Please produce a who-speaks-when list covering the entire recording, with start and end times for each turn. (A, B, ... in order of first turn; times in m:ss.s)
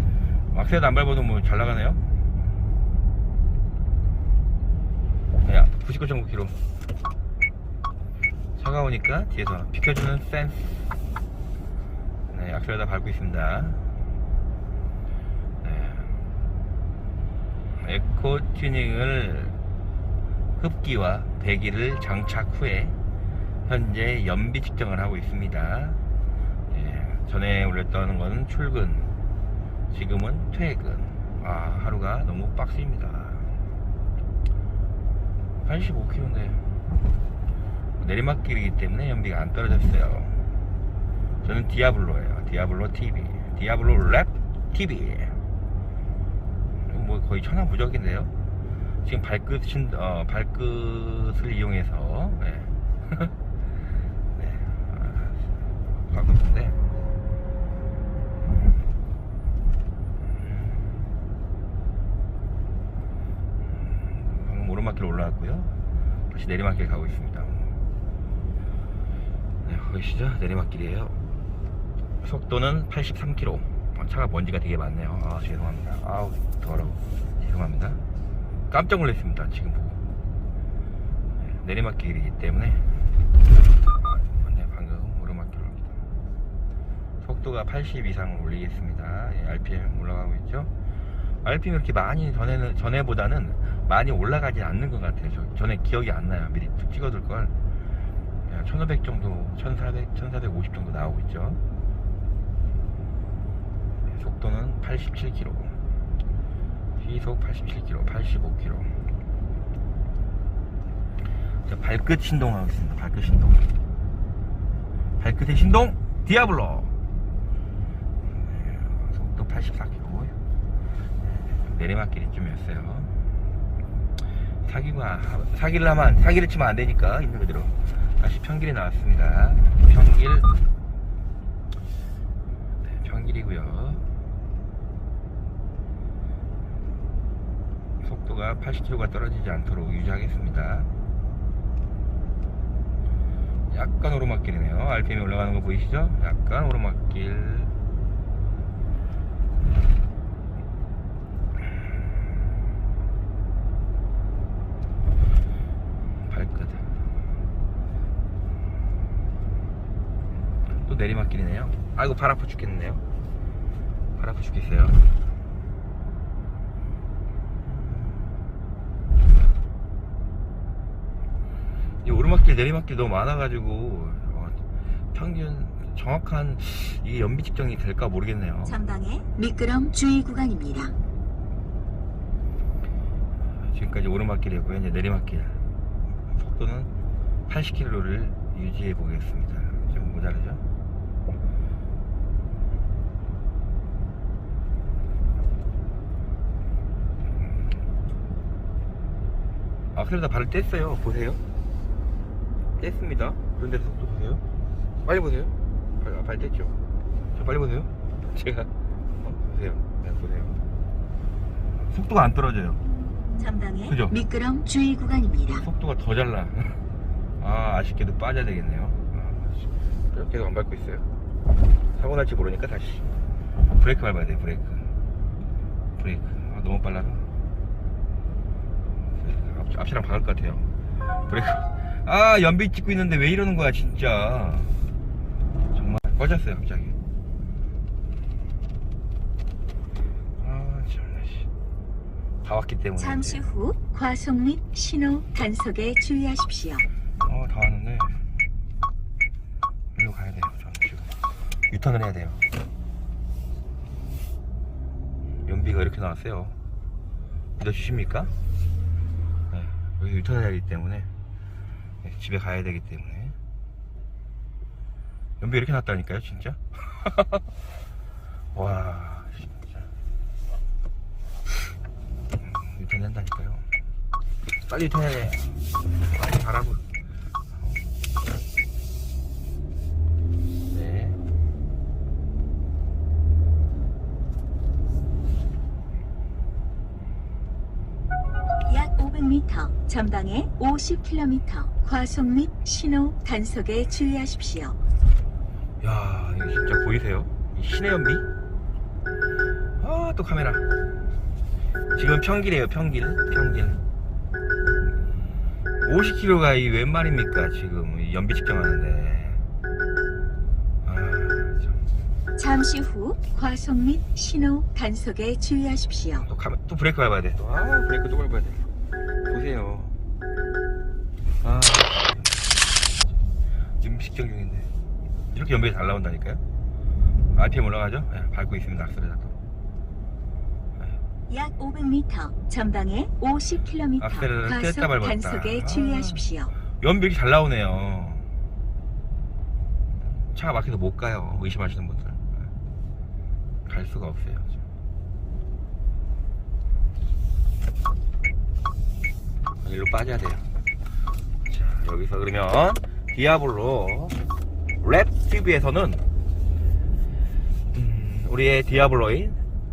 0:00.5-0:02.0 A
0:05.4-0:06.6 A
0:08.6-0:10.9 A
0:12.3-0:13.8 A
0:15.6-0:16.1 A
0:17.8-0:19.6 A
0:20.6-0:23.0 A
0:23.6-0:26.0 A
0:26.7-0:29.1 A
0:29.9-0:33.5 A
0:35.6-0:36.6 A
0:38.0-0:40.4 A
0:41.4-0:45.4 A
0:46.8-0:48.3 A
0:49.0-0:53.3 A
0:54.3-0:55.5 A
0:56.1-0:56.8 A
1:03.7-1:05.7 A
1:06.3-1:07.7 A
1:09.6-1:11.1 A
1:12.2-1:18.0 A
1:18.7-1:20.0 A
1:21.4-1:22.9 A
1:24.0-1:26.0 A
1:27.2-1:30.7 A
1:31.4-1:37.5 A
1:38.4-1:41.6 A
1:44.0-1:45.8 A
1:47.0-1:48.9 A
1:51.6-1:53.7 A
1:55.2-1:56.9 A
1:58.2-2:00.3 A
2:01.3-2:03.1 A
2:04.6-2:10.5 A
2:12.8-2:14.0 A
2:18.0-2:20.9 A
2:23.7-2:27.7 A
2:36.3-2:36.8 A
2:40.7-2:43.0 A
2:44.2-2:45.0 A
2:47.6-2:48.4 A
2:52.0-2:54.6 A
2:55.1-2:58.8 A
2:58.6-3:00.9 B
3:03.4-3:05.6 A
3:06.3-3:06.9 A
3:07.5-3:10.6 A
3:19.9-3:21.4 A
3:22.8-3:24.4 A
3:25.0-3:26.8 A
3:27.3-3:28.7 A
3:29.2-3:30.6 A
3:31.9-3:32.8 A
3:33.4-3:35.6 B
3:33.8-3:34.2 A
3:35.5-3:36.8 A
3:37.4-3:41.0 A
3:42.0-3:43.1 A
3:43.7-3:44.9 A
3:46.0-3:47.3 A
3:49.2-3:50.7 A
3:51.3-3:54.7 A
3:55.7-3:57.0 A
4:00.4-4:01.5 A
4:02.4-4:03.5 A
4:03.0-4:06.8 B
4:07.2-4:08.2 A
4:09.9-4:11.1 A
4:11.7-4:12.4 A
4:15.4-4:16.6 A
4:17.6-4:18.3 A
4:19.5-4:21.1 A
4:22.0-4:23.3 A
4:25.4-4:27.4 A
4:28.5-4:29.9 A
4:32.4-4:33.6 A
4:34.7-4:35.5 A
4:36.1-4:36.8 A
4:37.5-4:37.8 A
4:40.7-4:41.2 A
4:48.6-4:54.8 B
4:55.8-4:58.2 A
4:59.8-5:00.6 A
5:01.9-5:03.8 A
5:05.8-5:09.4 A
5:10.8-5:11.7 A
5:12.4-5:16.3 B
5:16.2-5:18.6 A
5:19.3-5:20.0 A
5:21.4-5:22.5 A
5:23.8-5:24.7 A
5:25.3-5:26.4 A
5:27.3-5:29.4 A
5:31.3-5:36.5 B
5:34.0-5:38.3 A
5:40.0-5:42.5 A
5:43.6-5:44.6 A
5:49.6-5:50.4 A
5:51.5-5:54.2 A
5:54.8-5:56.0 A
5:57.7-5:59.4 A